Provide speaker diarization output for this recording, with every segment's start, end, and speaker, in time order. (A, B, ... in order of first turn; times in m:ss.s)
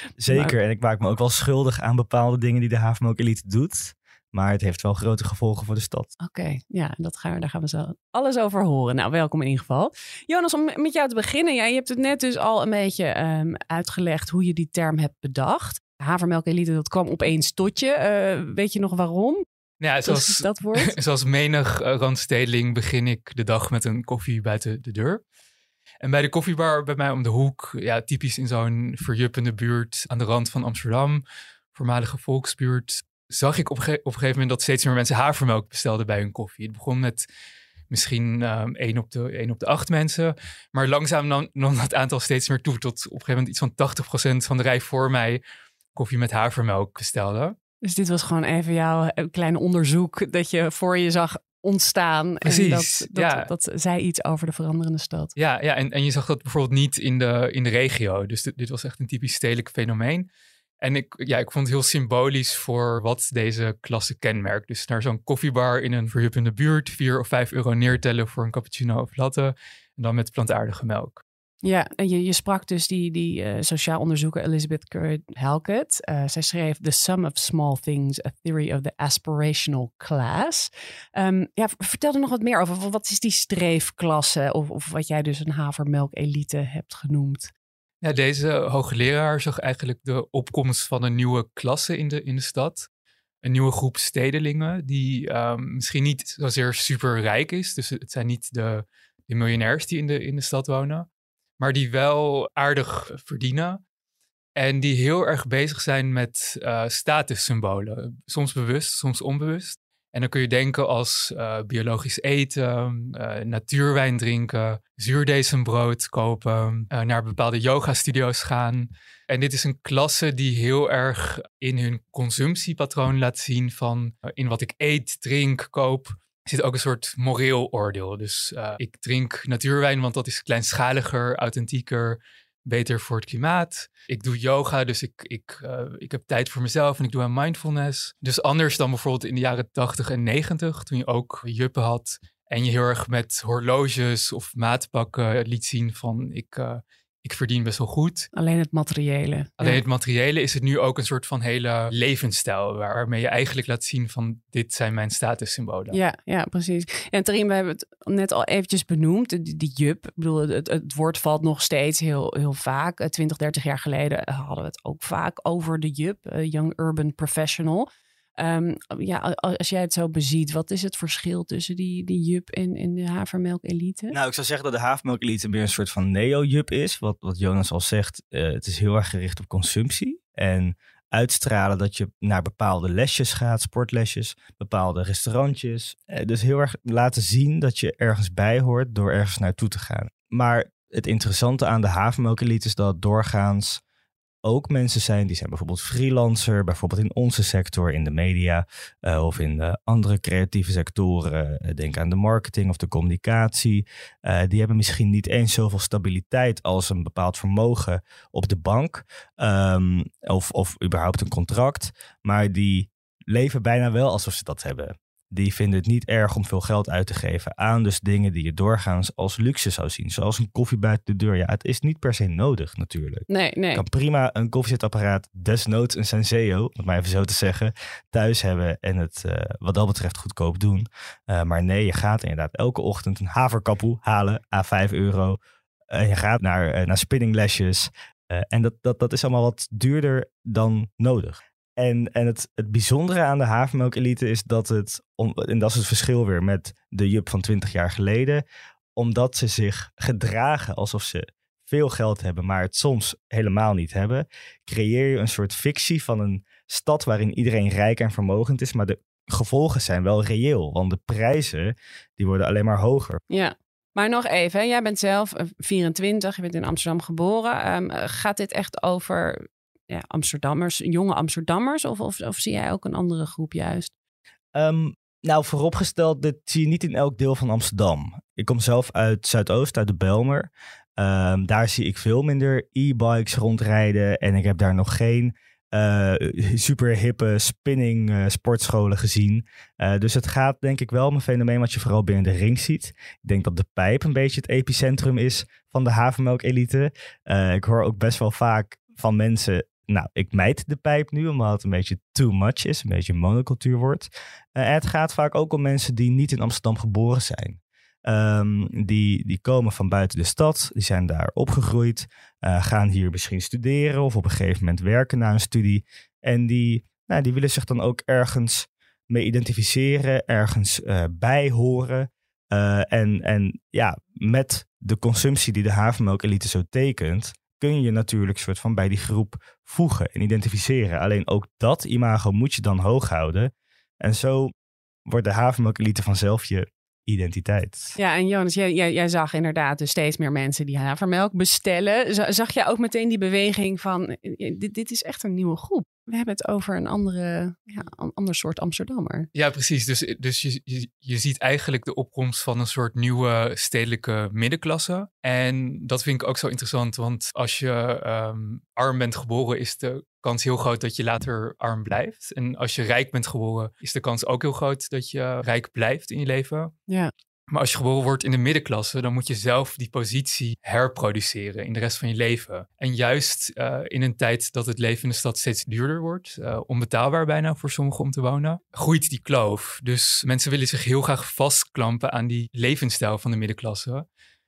0:00.2-0:06.1 A
0:00.3-0:00.5 B
0:06.2-0:19.4 B
0:19.8-0:25.2 C
0:20.0-0:20.9 B
0:26.0-0:31.2 C
0:31.7-0:37.3 C
0:37.9-0:45.4 C
0:45.9-0:47.6 C
0:47.8-0:55.3 B
0:52.4-0:53.5 C
0:55.4-1:00.3 C
1:00.8-1:11.2 C
1:11.6-1:27.5 B
1:28.0-1:32.9 C
1:33.4-1:41.1 C
1:41.6-1:43.8 C
1:44.6-2:28.3 C
2:28.3-2:29.8 B
2:29.6-2:36.0 C
2:35.9-2:54.2 B
2:54.1-3:13.8 A
3:14.4-3:55.4 A
3:43.3-3:43.8 B
3:55.9-4:08.4 A
4:09.0-4:23.2 A
4:23.3-4:33.9 B
4:34.6-5:34.5 A
5:35.1-5:37.9 A
5:38.0-5:49.3 B
5:49.3-6:06.7 C
6:07.5-6:24.0 C